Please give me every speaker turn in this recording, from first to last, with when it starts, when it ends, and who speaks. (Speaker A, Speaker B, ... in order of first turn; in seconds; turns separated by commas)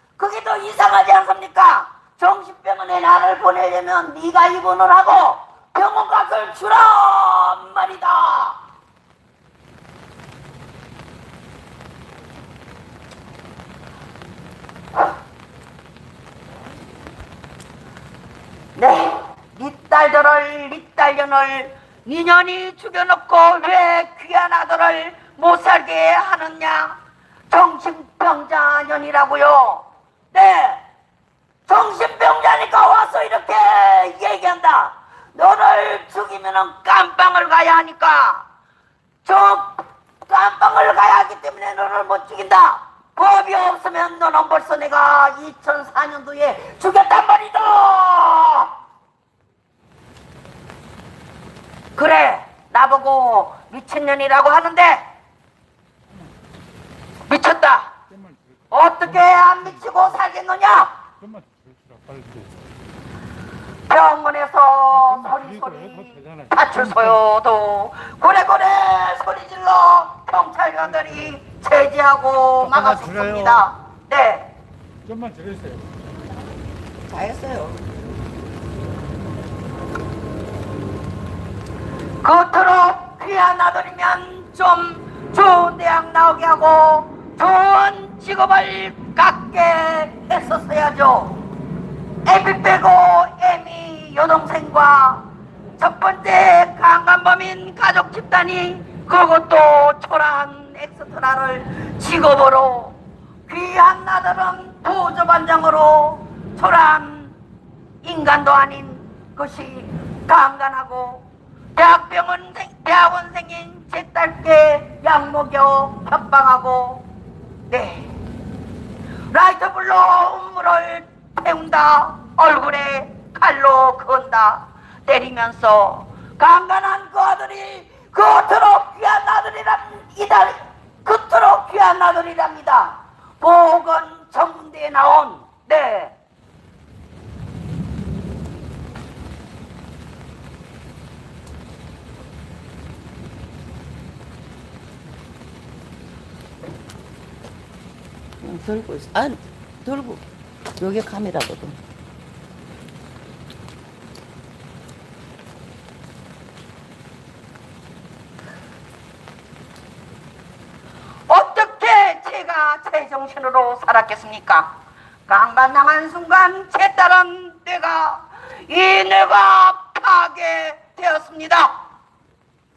Speaker A: 0.2-8.6, Speaker A: 18.8-27.0, Speaker A: 27.5-30.8, Speaker A: 31.7-38.5, Speaker A: 39.2-48.7, Speaker A: 52.0-55.0, Speaker A: 57.3-57.9, Speaker A: 58.7-60.9, Speaker B: 61.2-62.5, Speaker A: 63.9-74.5, Speaker B: 75.1-75.8, Speaker A: 77.1-77.8, Speaker A: 82.2-91.4, Speaker A: 92.3-95.2, Speaker A: 95.8-107.4, Speaker A: 108.0-117.0, Speaker A: 117.7-118.1, Speaker A: 119.3-136.2, Speaker C: 148.4-150.2, Speaker C: 150.8-151.8, Speaker A: 161.3-164.7, Speaker A: 165.3-171.7